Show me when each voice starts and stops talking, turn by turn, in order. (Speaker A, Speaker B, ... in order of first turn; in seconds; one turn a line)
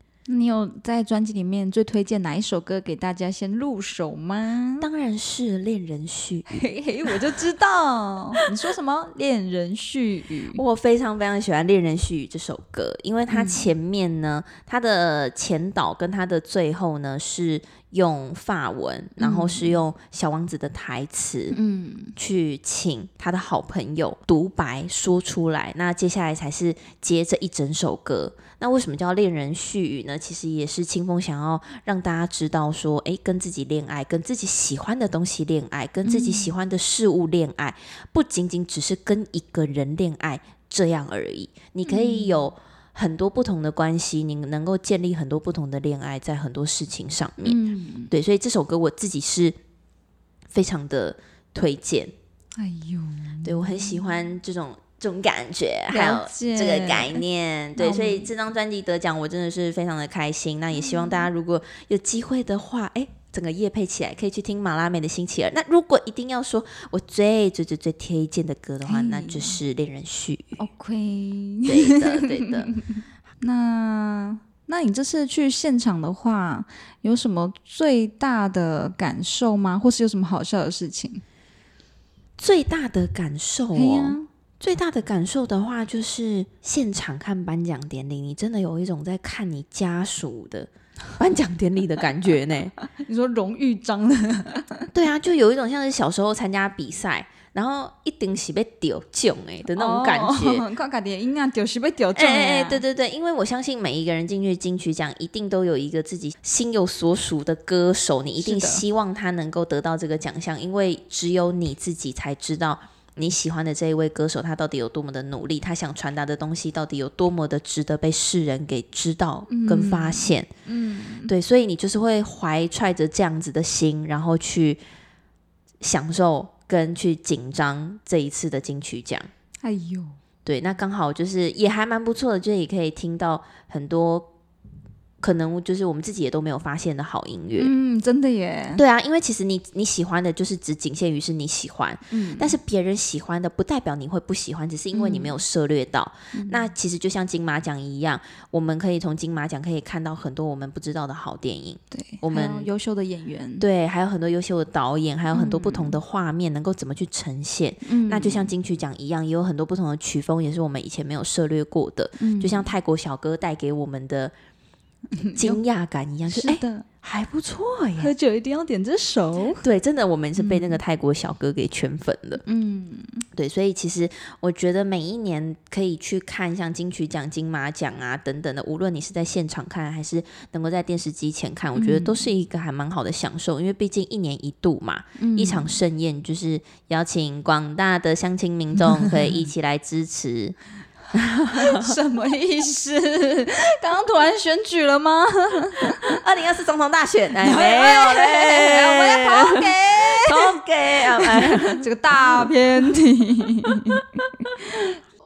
Speaker A: 0.3-4.9
Speaker B: 4.8-6.5
Speaker A: 6.5-10.6
Speaker B: 10.5-21.6
Speaker A: 13.3-13.7
Speaker A: 19.2-19.7
Speaker A: 21.5-22.1
Speaker B: 22.2-47.6
Speaker A: 36.0-36.5
Speaker A: 41.8-42.4
Speaker A: 47.4-48.1
Speaker B: 48.1-49.5
Speaker B: 50.5-52.1
Speaker A: 52.6-54.0
Speaker B: 53.4-70.6
Speaker A: 55.9-57.2
Speaker A: 57.8-58.3
Speaker A: 60.7-61.3
Speaker A: 68.8-69.6
Speaker A: 70.6-72.8
Speaker B: 71.7-72.7
Speaker A: 73.4-81.2
Speaker B: 82.4-92.7
Speaker A: 83.7-84.3
Speaker A: 92.9-94.9
Speaker B: 94.9-100.6
Speaker A: 99.7-102.8
Speaker B: 102.1-120.5
Speaker A: 108.4-108.8
Speaker A: 119.5-121.3
Speaker B: 121.3-124.8
Speaker B: 125.8-129.3
Speaker A: 129.6-130.2
Speaker B: 130.4-134.3
Speaker B: 135.2-137.7
Speaker A: 137.6-138.8
Speaker B: 138.7-152.7
Speaker A: 142.1-142.6
Speaker A: 144.9-145.4
Speaker A: 146.3-146.7
Speaker A: 151.9-153.7
Speaker B: 153.6-164.3
Speaker A: 155.3-156.0
Speaker A: 157.8-158.5
Speaker A: 162.2-162.7
Speaker A: 165.1-165.6
Speaker B: 165.3-168.1
Speaker A: 166.3-166.9
Speaker A: 168.0-169.6
Speaker B: 169.6-172.4
Speaker A: 170.4-170.8
Speaker A: 172.4-173.2
Speaker B: 173.3-190.6
Speaker A: 181.7-182.2
Speaker A: 185.2-185.7
Speaker B: 191.1-191.9
Speaker A: 191.5-196.2
Speaker B: 196.1-202.5
Speaker A: 197.4-204.9